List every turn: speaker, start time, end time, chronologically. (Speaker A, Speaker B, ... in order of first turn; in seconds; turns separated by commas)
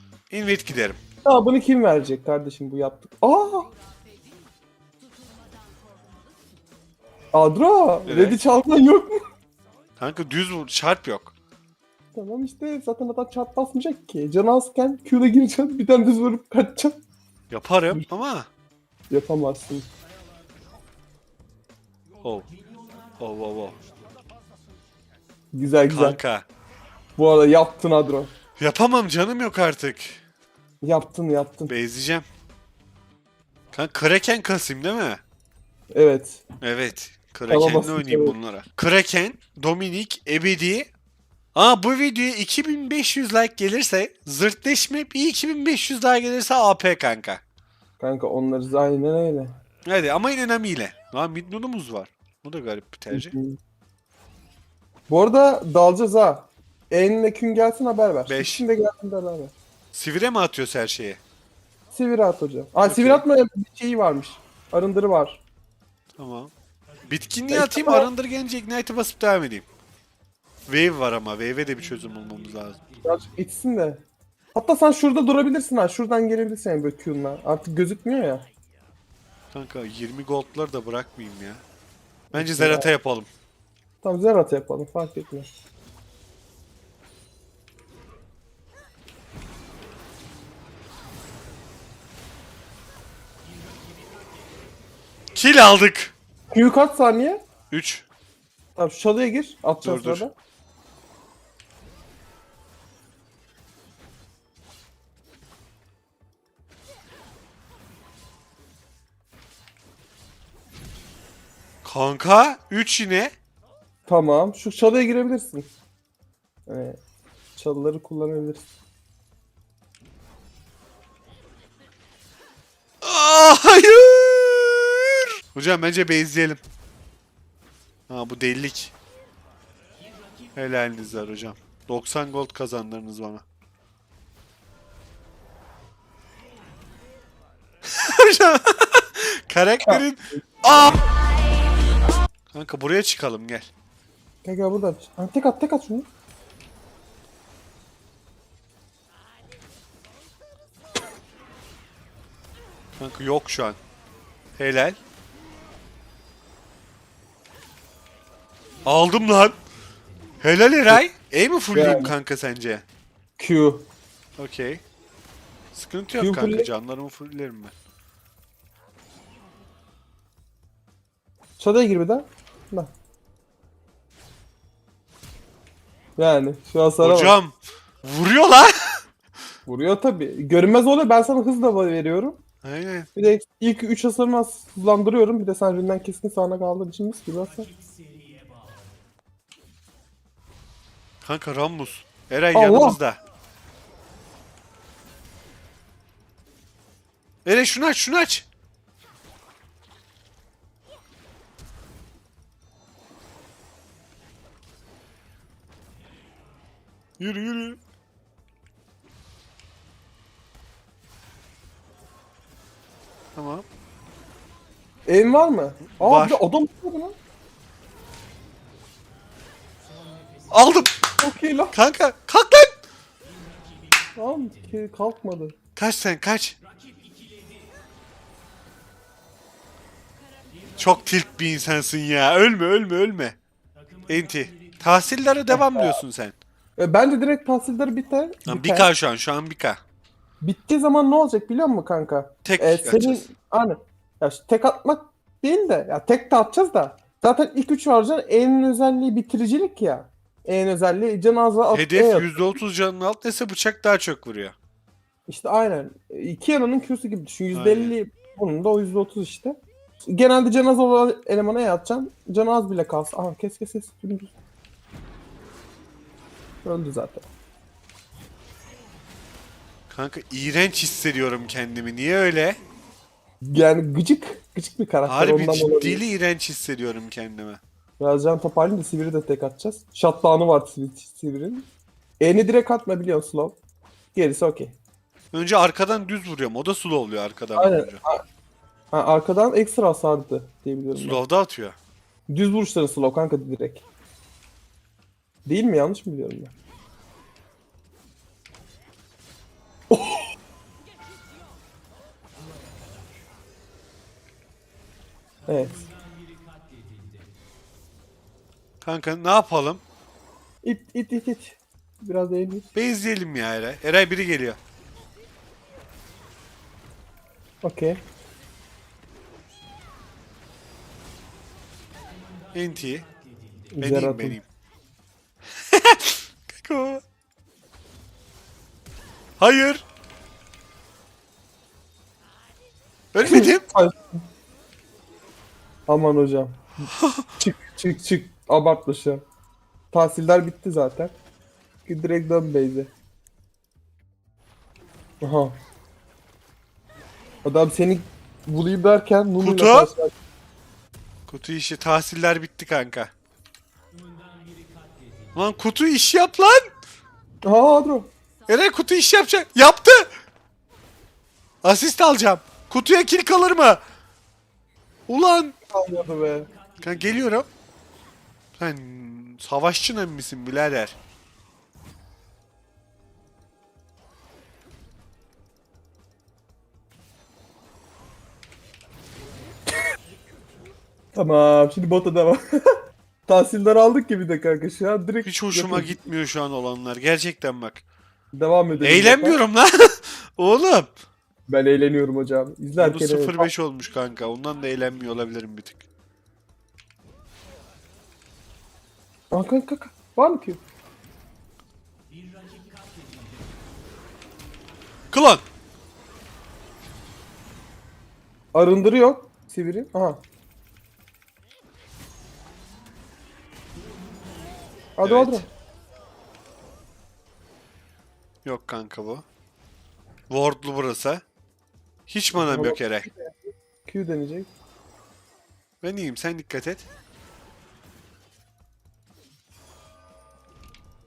Speaker A: 0.3-1.0, Speaker B: 1.2-3.7, Speaker B: 7.3-9.2, Speaker A: 8.1-8.4, Speaker A: 10.0-11.3, Speaker B: 12.1-16.9, Speaker A: 17.5-18.5, Speaker B: 19.1-19.9, Speaker A: 22.2-22.5, Speaker A: 23.2-23.8, Speaker B: 25.5-26.2, Speaker A: 25.9-26.4, Speaker B: 27.2-28.3, Speaker A: 28.6-30.2, Speaker B: 30.8-31.7, Speaker A: 31.7-32.2, Speaker A: 33.7-35.2, Speaker B: 35.9-36.4, Speaker A: 36.6-40.9, Speaker B: 37.5-38.3, Speaker A: 41.5-47.4, Speaker B: 48.0-49.6, Speaker A: 49.9-53.3, Speaker B: 53.1-53.6, Speaker B: 55.1-59.5, Speaker A: 58.3-58.6, Speaker A: 59.9-61.2, Speaker B: 61.9-65.4, Speaker A: 62.8-63.2, Speaker A: 66.2-66.5, Speaker A: 67.1-69.7, Speaker B: 67.5-68.1, Speaker A: 70.7-72.8, Speaker B: 73.0-74.0, Speaker B: 74.5-78.5, Speaker A: 79.5-81.6, Speaker B: 82.3-82.9, Speaker A: 82.3-83.3, Speaker B: 84.0-85.5, Speaker A: 95.3-96.1, Speaker B: 96.5-97.4, Speaker A: 97.7-98.0, Speaker B: 98.8-100.3, Speaker A: 99.8-100.2, Speaker A: 111.8-113.3, Speaker B: 114.0-115.7, Speaker B: 116.7-117.0, Speaker B: 117.5-118.7, Speaker A: 123.0-126.6, Speaker A: 128.1-128.9, Speaker A: 130.6-133.4, Speaker A: 137.8-141.0, Speaker A: 142.5-143.7, Speaker B: 144.4-146.1, Speaker A: 153.0-153.8, Speaker A: 154.6-155.0, Speaker A: 158.8-159.6, Speaker A: 160.4-162.8, Speaker B: 161.7-162.1, Speaker B: 163.4-163.9, Speaker A: 164.4-164.8, Speaker A: 165.7-167.7, Speaker B: 166.2-166.7, Speaker B: 171.6-172.9, Speaker B: 176.2-177.3, Speaker A: 177.0-179.0, Speaker B: 179.7-182.4, Speaker A: 182.6-183.1, Speaker B: 183.1-187.7, Speaker A: 191.2-193.2, Speaker B: 192.5-193.0, Speaker A: 197.4-198.5, Speaker A: 207.2-207.8, Speaker A: 213.3-213.6, Speaker B: 215.1-217.2, Speaker A: 215.9-216.4, Speaker A: 220.5-220.9, Speaker B: 221.2-221.8, Speaker A: 221.7-222.7, Speaker B: 224.2-225.5, Speaker A: 225.8-226.6, Speaker A: 230.8-233.4, Speaker A: 234.1-236.3, Speaker B: 235.5-236.0, Speaker B: 236.8-238.9, Speaker A: 238.5-239.8, Speaker B: 240.4-252.6, Speaker A: 242.4-243.3, Speaker A: 251.7-254.6, Speaker B: 255.3-264.3, Speaker A: 257.5-257.9, Speaker B: 266.6-267.3, Speaker A: 269.9-272.6, Speaker B: 273.4-276.0, Speaker A: 275.1-277.6, Speaker B: 278.0-281.7, Speaker B: 282.2-283.6, Speaker B: 284.1-284.8, Speaker A: 285.3-288.0, Speaker B: 287.6-288.2, Speaker B: 288.9-291.2, Speaker A: 290.9-291.8, Speaker B: 292.3-293.8, Speaker B: 295.4-296.5, Speaker B: 299.9-300.3, Speaker B: 305.5-305.9, Speaker A: 308.8-309.8, Speaker B: 310.6-312.7, Speaker A: 312.7-314.6, Speaker B: 317.6-318.0, Speaker A: 322.5-323.1, Speaker B: 323.7-324.4, Speaker A: 323.8-324.4, Speaker A: 325.7-327.0, Speaker A: 329.4-329.8, Speaker A: 333.1-333.6, Speaker B: 333.2-334.2, Speaker B: 335.9-336.8, Speaker A: 336.9-337.3, Speaker B: 337.4-339.2, Speaker B: 339.9-341.1, Speaker B: 341.9-342.9, Speaker B: 345.2-345.6, Speaker B: 347.4-350.1, Speaker A: 349.4-349.9, Speaker A: 351.3-353.1, Speaker A: 355.4-356.7, Speaker B: 357.4-358.1, Speaker A: 358.5-360.1, Speaker A: 361.6-363.8, Speaker A: 365.1-365.5, Speaker B: 365.7-366.5, Speaker A: 366.8-367.5, Speaker A: 368.6-371.0, Speaker B: 381.1-386.0, Speaker A: 385.2-387.8, Speaker B: 388.3-389.4, Speaker A: 388.8-390.9, Speaker B: 391.5-393.5, Speaker A: 392.8-395.8, Speaker B: 399.3-400.6, Speaker A: 405.1-405.4, Speaker B: 408.5-410.2, Speaker B: 415.0-415.4, Speaker A: 415.0-415.4, Speaker A: 418.4-419.2, Speaker A: 420.3-421.2, Speaker A: 422.1-423.1, Speaker B: 422.3-424.5, Speaker A: 425.8-426.9